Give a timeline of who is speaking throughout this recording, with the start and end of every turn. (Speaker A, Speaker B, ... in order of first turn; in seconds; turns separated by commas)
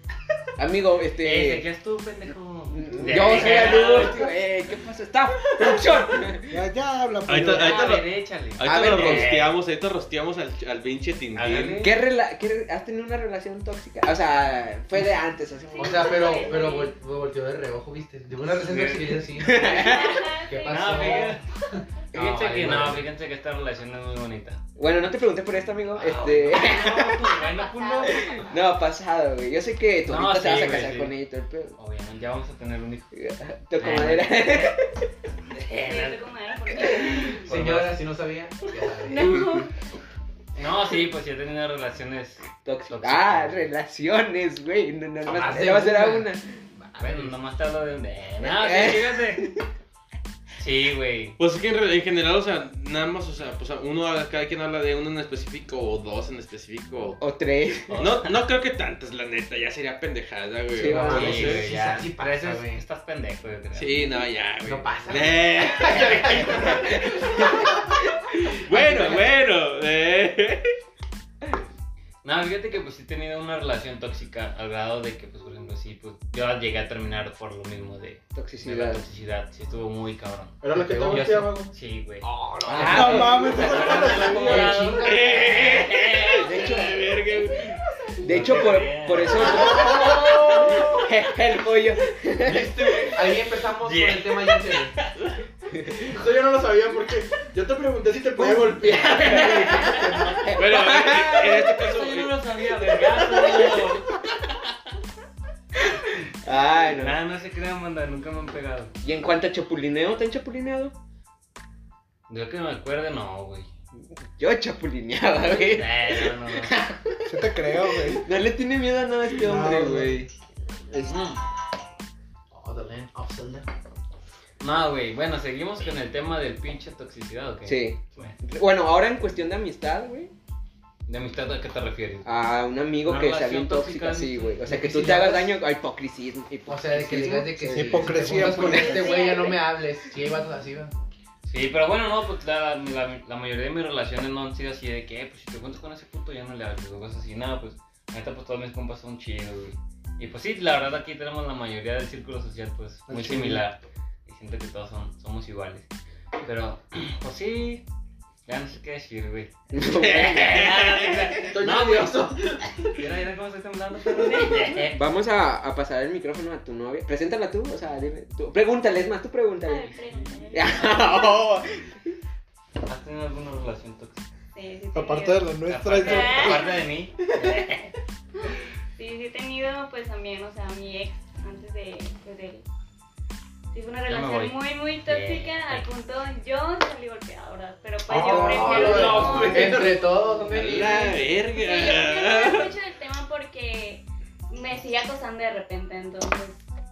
Speaker A: 0.6-1.6, Speaker B: 1.2-4.3, Speaker A: 2.7-6.6, Speaker C: 6.5-7.9, Speaker D: 7.3-11.8, Speaker B: 7.6-9.6, Speaker A: 8.6-9.3, Speaker B: 11.3-11.9, Speaker A: 11.8-16.4, Speaker E: 15.7-16.9, Speaker F: 15.8-21.4, Speaker B: 18.5-19.2, Speaker A: 19.4-20.3, Speaker E: 19.6-21.2, Speaker B: 20.6-21.4, Speaker B: 22.1-24.6, Speaker F: 22.1-23.0, Speaker A: 24.8-27.4, Speaker B: 25.9-28.2, Speaker E: 27.5-28.4, Speaker A: 28.1-31.7, Speaker B: 30.1-31.1, Speaker B: 31.8-33.1, Speaker A: 33.1-34.8, Speaker B: 33.8-34.7, Speaker B: 35.5-36.2, Speaker E: 35.8-37.5, Speaker F: 37.4-39.3, Speaker B: 37.5-37.9, Speaker E: 39.0-39.7, Speaker A: 39.3-39.6, Speaker B: 40.5-43.7, Speaker A: 42.6-46.5, Speaker F: 45.2-47.3, Speaker B: 47.0-49.5, Speaker A: 48.4-49.6, Speaker B: 50.6-51.4, Speaker D: 51.4-57.2, Speaker A: 57.2-58.0, Speaker B: 57.9-58.3, Speaker D: 57.9-61.6, Speaker A: 60.7-61.5, Speaker F: 60.8-62.8, Speaker B: 61.0-64.0, Speaker D: 63.7-66.9, Speaker F: 64.6-67.8, Speaker A: 66.5-67.9, Speaker D: 68.6-70.7, Speaker A: 68.7-69.2, Speaker F: 68.8-69.2, Speaker B: 72.2-86.7, Speaker A: 78.3-79.0, Speaker G: 80.6-81.7, Speaker F: 80.7-81.4, Speaker F: 82.2-85.7, Speaker A: 82.7-83.5, Speaker C: 82.8-84.8, Speaker D: 85.0-87.8, Speaker A: 86.4-87.1, Speaker A: 88.2-92.8, Speaker B: 88.2-89.8, Speaker G: 89.4-91.0, Speaker F: 92.4-94.9, Speaker B: 93.8-95.1, Speaker A: 95.7-96.1, Speaker G: 96.1-100.2, Speaker B: 99.0-100.0, Speaker A: 99.2-101.7, Speaker D: 100.5-102.3, Speaker B: 101.7-104.0, Speaker A: 105.8-107.2, Speaker B: 107.0-108.9, Speaker A: 109.0-110.9, Speaker B: 112.3-113.7, Speaker A: 114.4-117.3, Speaker B: 115.7-116.7, Speaker C: 117.2-118.2, Speaker A: 118.0-120.3, Speaker C: 119.3-120.2, Speaker A: 120.9-121.1, Speaker F: 122.5-123.7, Speaker B: 124.6-128.3, Speaker A: 127.7-130.3, Speaker B: 131.1-132.3, Speaker A: 132.2-138.9, Speaker B: 133.0-134.6, Speaker F: 134.6-135.6, Speaker F: 136.7-140.9, Speaker C: 137.7-139.2, Speaker E: 138.7-139.7, Speaker B: 141.4-155.9, Speaker C: 153.1-153.6, Speaker B: 156.4-157.8, Speaker B: 158.4-162.2, Speaker A: 159.7-160.7, Speaker D: 160.1-160.8, Speaker G: 161.4-162.9, Speaker B: 162.9-165.0, Speaker E: 164.1-164.8, Speaker A: 164.9-169.9, Speaker E: 169.7-171.4, Speaker B: 170.1-170.4, Speaker A: 170.5-171.8, Speaker B: 172.8-174.2, Speaker E: 174.5-176.8, Speaker C: 174.9-176.6, Speaker B: 175.7-177.9, Speaker E: 178.5-182.6, Speaker E: 183.7-190.1, Speaker B: 184.1-185.8, Speaker F: 188.1-191.2, Speaker C: 188.1-188.7, Speaker B: 188.7-189.8, Speaker D: 190.5-192.7, Speaker E: 191.5-196.6